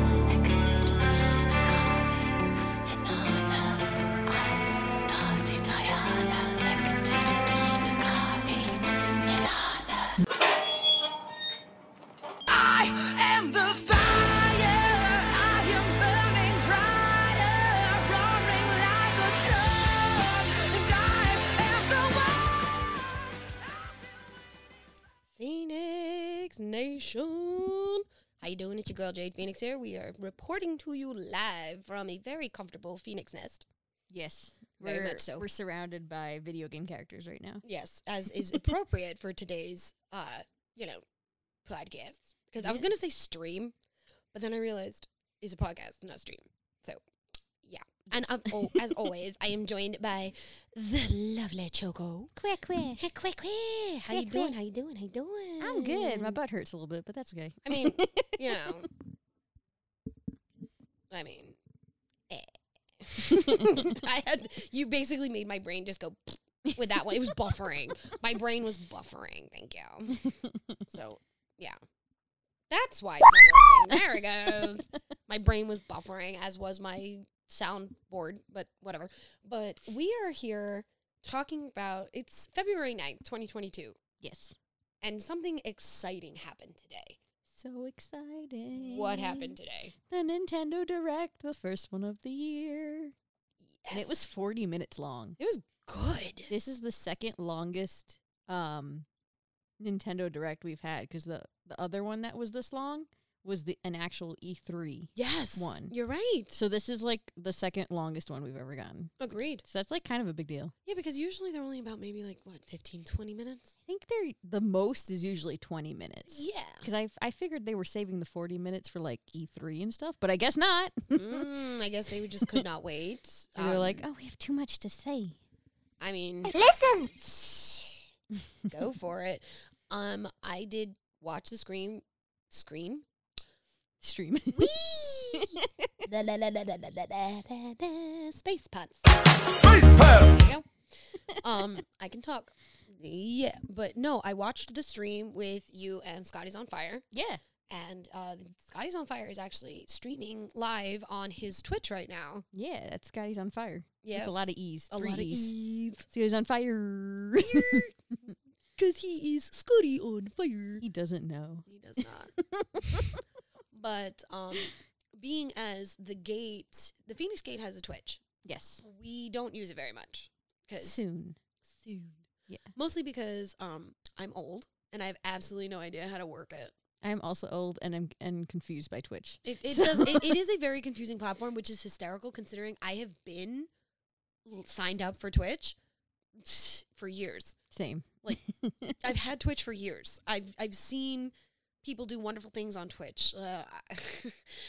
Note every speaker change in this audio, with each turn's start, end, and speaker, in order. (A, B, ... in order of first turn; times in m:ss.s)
0:00.3-0:00.7 A
0:04.4-0:05.0 A
0:09.3-0:09.7 B
0:12.5-0:23.7 B
0:25.4-0:33.6 C
0:34.1-0:37.6 A
0:34.8-0:35.5 C
0:37.6-0:41.0 C
0:41.6-0:43.7 C
0:42.6-0:42.8 A
0:44.3-0:47.0 C
0:47.6-0:52.3 C
0:48.1-0:48.8 A
0:52.4-0:53.0 A
0:53.0-0:56.4 C
0:54.1-0:54.5 A
0:55.6-0:58.7 A
0:57.6-0:58.9 C
1:01.1-1:01.6 C
1:02.3-1:10.2 C
1:03.3-1:03.8 A
1:06.7-1:07.6 A
1:10.2-1:10.5 A
1:10.9-1:11.8 C
1:12.7-1:24.0 C
1:13.5-1:14.1 A
1:24.2-1:24.6 A
1:25.0-1:27.2 C
1:27.4-1:29.6 A
1:28.8-1:29.9 C
1:30.1-1:33.1 A
1:33.7-1:34.1 C
1:33.9-1:35.4 A
1:35.4-1:36.5 C
1:36.5-1:39.0 A
1:39.8-1:45.9 A
1:45.2-1:46.5 C
1:46.5-1:50.7 A
1:49.2-1:49.6 C
1:50.8-1:53.7 C
1:53.8-2:01.5 A
1:56.3-1:56.9 C
2:01.1-2:04.0 C
2:03.6-2:05.4 A
2:06.0-2:08.0 C
2:08.7-2:13.0 C
2:14.0-2:14.8 A
2:14.5-2:27.0 C
2:15.3-2:15.6 A
2:27.1-2:27.4 A
2:27.7-2:32.5 C
2:32.5-2:35.5 A
2:34.0-2:36.1 C
2:36.1-2:37.9 A
2:37.4-2:37.9 C
2:38.8-2:40.8 C
2:40.8-2:41.7 A
2:41.7-2:42.3 C
2:42.4-2:43.2 A
2:43.7-2:48.2 C
2:48.4-2:48.8 A
2:48.8-2:51.0 C
2:50.8-2:51.4 A
2:51.6-2:56.7 C
2:57.0-3:00.4 A
2:59.4-3:03.7 C
3:04.4-3:05.8 C
3:06.4-3:07.6 C
3:07.7-3:09.0 A
3:09.0-3:14.6 C